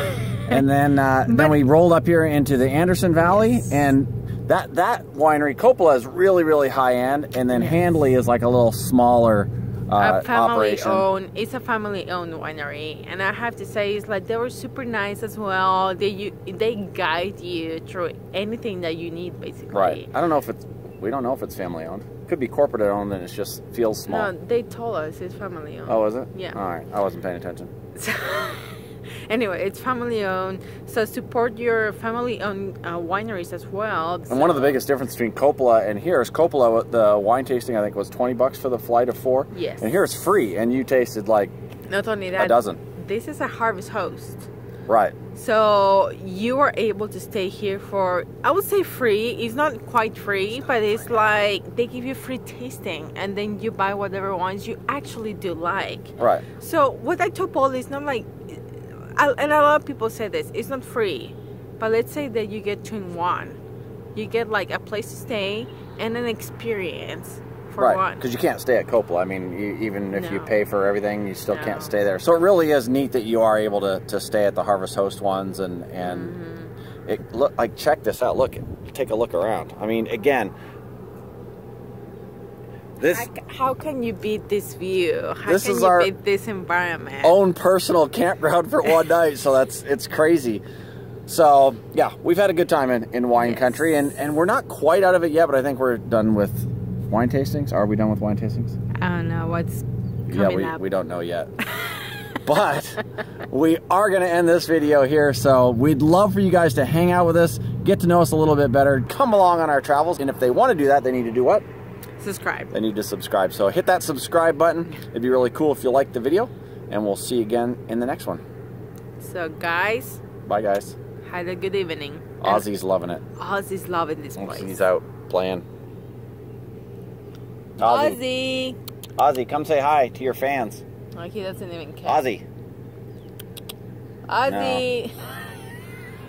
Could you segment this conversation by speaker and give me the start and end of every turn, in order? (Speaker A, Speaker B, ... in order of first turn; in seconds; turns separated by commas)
Speaker A: 0.5-11.0, Speaker B: 1.3-1.6, Speaker B: 7.5-7.8, Speaker B: 10.0-20.1, Speaker A: 19.7-24.3, Speaker B: 24.1-26.6, Speaker A: 25.9-27.7, Speaker B: 27.9-34.8, Speaker A: 34.3-41.5, Speaker B: 39.5-40.0, Speaker B: 41.9-44.5, Speaker A: 42.4-42.8, Speaker A: 44.9-45.1, Speaker B: 45.3-63.6, Speaker A: 56.2-56.4, Speaker B: 64.1-68.2, Speaker A: 67.8-76.3, Speaker B: 70.1-70.5, Speaker B: 71.5-72.0, Speaker B: 76.0-76.7, Speaker A: 77.1-80.5, Speaker A: 83.0-83.3, Speaker B: 83.0-87.3, Speaker A: 85.5-86.1, Speaker A: 87.2-90.6, Speaker A: 91.3-98.8, Speaker B: 93.3-94.0, Speaker B: 98.9-100.8, Speaker A: 100.3-101.5, Speaker A: 102.4-111.6, Speaker B: 112.2-112.7, Speaker A: 112.7-118.4, Speaker B: 119.2-120.2, Speaker A: 120.5-121.0, Speaker B: 121.2-122.7, Speaker A: 122.4-123.2, Speaker B: 123.4-124.8, Speaker A: 124.4-125.6, Speaker A: 127.8-128.2, Speaker B: 127.8-128.8, Speaker A: 129.2-130.8, Speaker B: 131.1-132.2, Speaker A: 132.0-132.4, Speaker B: 134.3-135.4, Speaker A: 134.5-134.8